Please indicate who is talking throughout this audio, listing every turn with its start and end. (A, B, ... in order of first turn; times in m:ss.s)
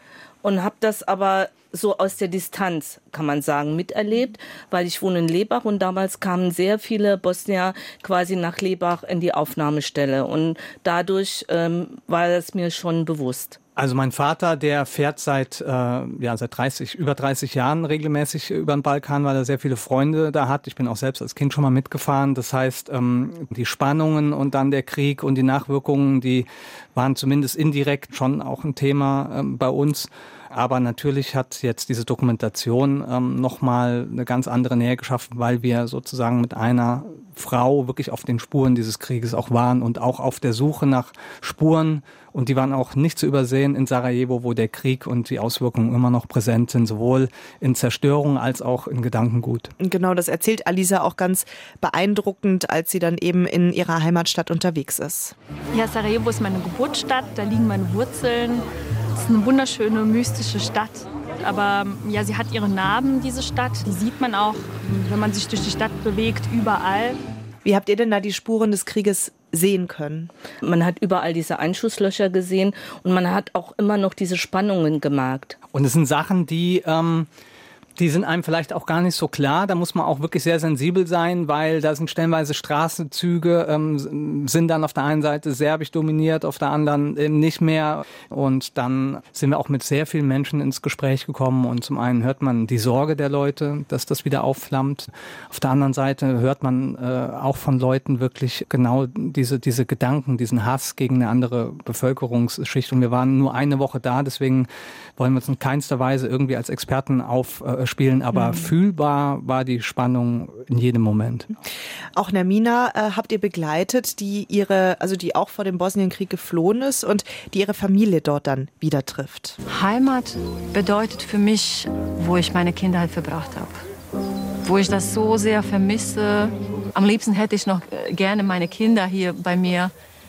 0:00.4-0:13.6 A
0:13.8-0:49.7 B
0:49.8-0:55.4 C
0:55.7-0:58.6 D
0:59.2-1:07.2 D
1:07.6-1:10.3 C
1:10.6-1:15.6 A
1:15.7-1:17.3 B
1:18.0-1:51.5 B
1:48.3-1:48.7 C
1:52.2-1:59.6 C
1:59.7-2:03.8 E
2:04.6-2:09.9 E